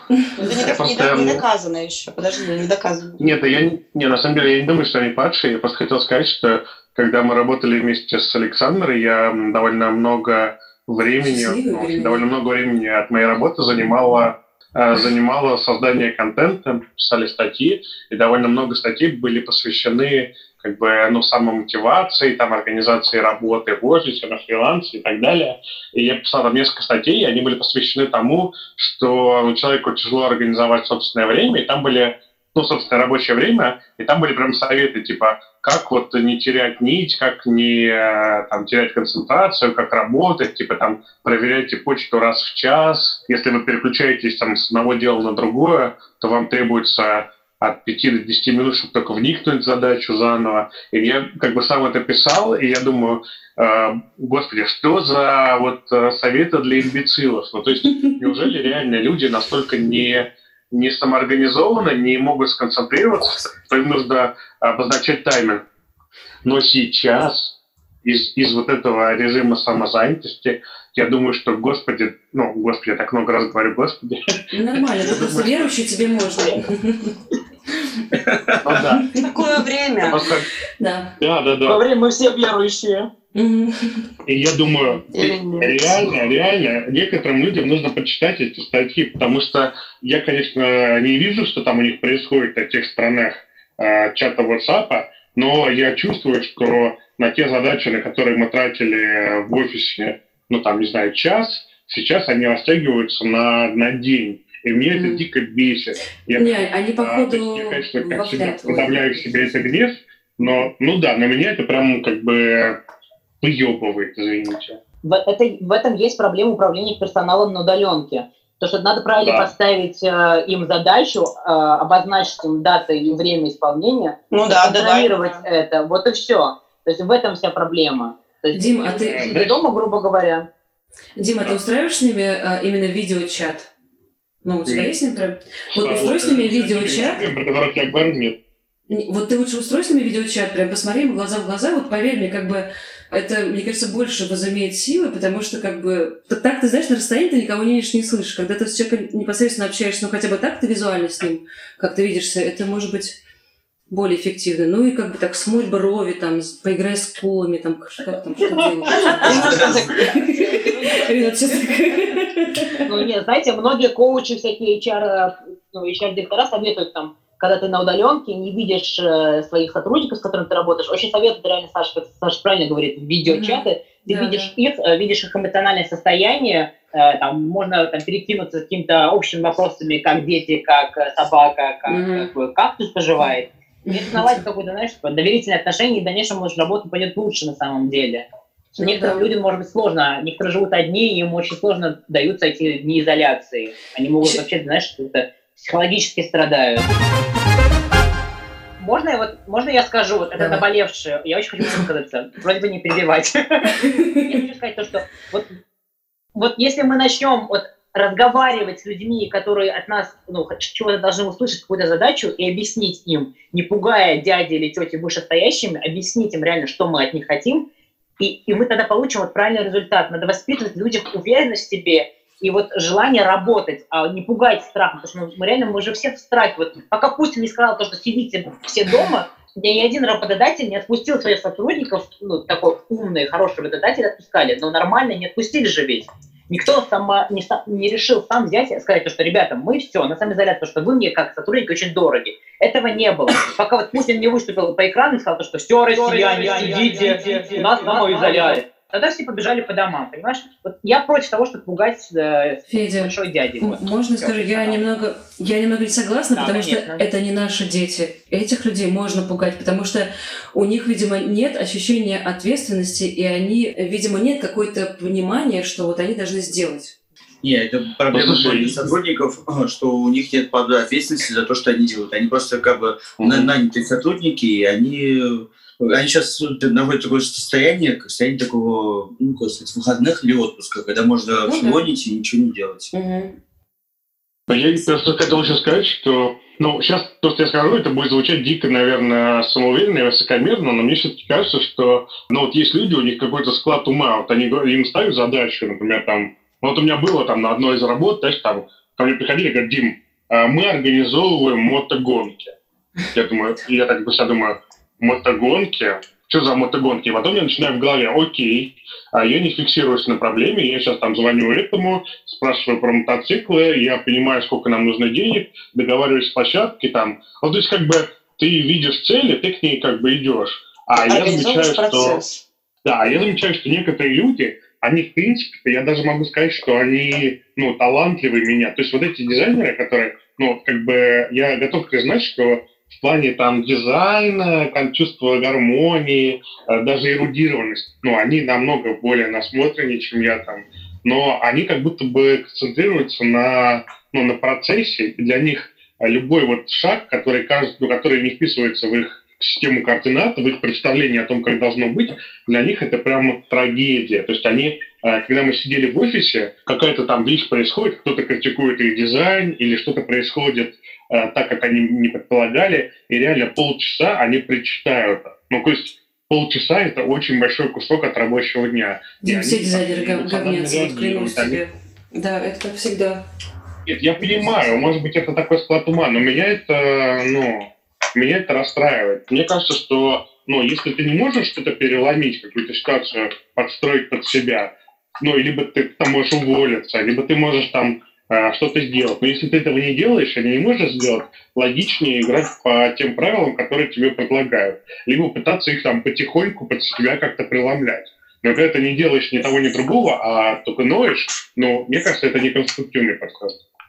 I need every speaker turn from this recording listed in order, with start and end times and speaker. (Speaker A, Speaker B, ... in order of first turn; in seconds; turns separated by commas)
Speaker A: 0.4-1.4, Speaker B: 0.4-3.2, Speaker A: 3.2-65.6, Speaker C: 11.2-12.2, Speaker A: 66.4-74.2, Speaker C: 74.5-77.2, Speaker D: 75.0-75.7, Speaker D: 78.1-78.8, Speaker A: 78.6-79.2, Speaker C: 79.0-79.3, Speaker B: 79.2-80.2, Speaker A: 80.1-80.5, Speaker C: 80.8-81.2, Speaker A: 81.2-81.8, Speaker E: 81.7-83.1, Speaker C: 83.3-84.1, Speaker A: 84.3-112.8, Speaker B: 85.1-85.9, Speaker C: 104.9-105.3, Speaker C: 106.4-109.2, Speaker A: 113.4-114.8, Speaker E: 115.0-130.5, Speaker A: 119.2-119.5, Speaker B: 124.3-125.4, Speaker C: 128.5-129.3, Speaker A: 129.1-129.6, Speaker C: 131.2-133.7, Speaker C: 134.4-137.3, Speaker A: 134.7-134.9, Speaker A: 135.7-138.4, Speaker C: 138.9-153.2, Speaker C: 153.9-162.9, Speaker B: 158.9-160.1, Speaker E: 159.1-159.7, Speaker D: 159.2-159.8, Speaker E: 160.4-161.5, Speaker E: 162.8-188.2, Speaker C: 173.3-174.5, Speaker C: 181.9-182.3, Speaker C: 183.9-184.4, Speaker C: 188.8-189.3, Speaker E: 188.8-196.9, Speaker E: 198.8-205.5, Speaker C: 200.4-200.6, Speaker C: 203.8-204.3, Speaker E: 206.3-217.6, Speaker E: 218.2-254.8, Speaker B: 246.0-248.6, Speaker C: 252.7-266.9, Speaker E: 256.4-257.1, Speaker D: 267.4-282.9, Speaker A: 268.1-268.9, Speaker A: 273.2-273.5, Speaker C: 281.4-281.9, Speaker C: 282.9-283.4, Speaker A: 284.5-302.6, Speaker A: 303.1-322.2, Speaker B: 321.0-322.4, Speaker A: 322.9-371.6, Speaker C: 369.2-373.2, Speaker A: 373.9-403.6